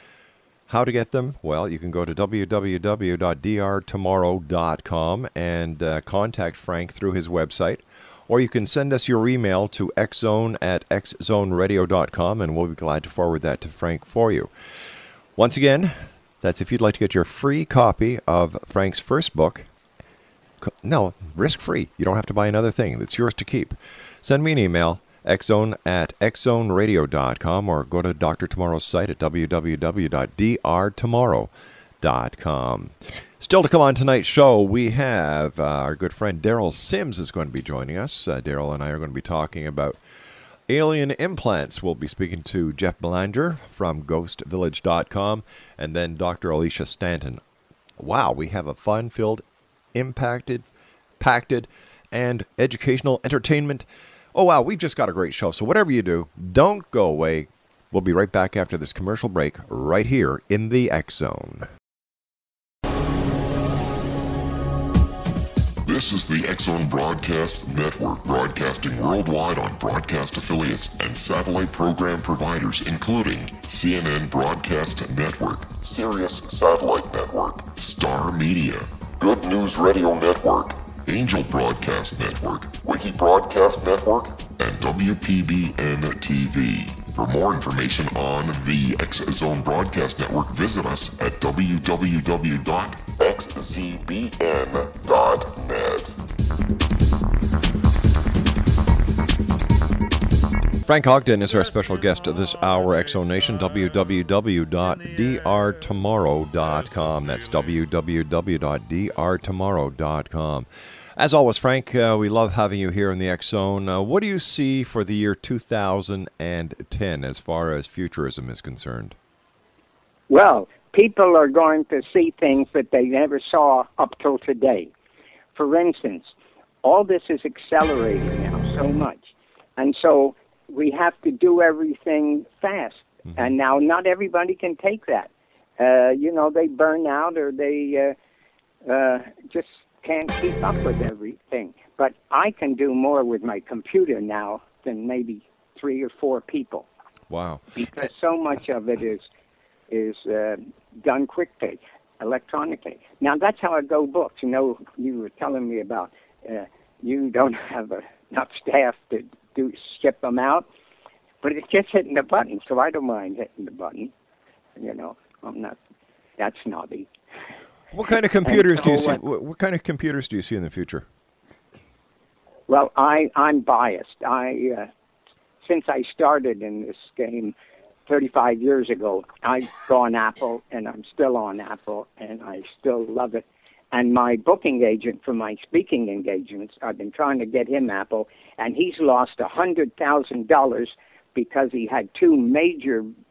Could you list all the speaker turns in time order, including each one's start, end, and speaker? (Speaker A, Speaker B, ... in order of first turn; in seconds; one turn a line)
Speaker A: 0.7-14.5
Speaker A: 15.3-19.7
Speaker A: 20.6-31.5
Speaker A: 32.0-40.0
Speaker A: 40.7-47.4
Speaker A: 48.0-50.7
Speaker A: 51.2-61.7
Speaker B: 65.8-96.2
Speaker A: 100.8-119.2
Speaker C: 120.3-124.9
Speaker C: 125.5-126.3
Speaker C: 126.8-138.1
Speaker C: 138.8-146.8
Speaker A: 147.3-147.7
Speaker C: 147.8-149.2
Speaker C: 149.9-160.7
Speaker C: 161.4-164.1
Speaker C: 164.8-165.8
Speaker C: 166.4-167.1
Speaker A: 167.9-171.1
Speaker C: 168.4-169.2
Speaker C: 172.7-174.9
Speaker C: 175.6-177.5
Speaker C: 178.1-193.1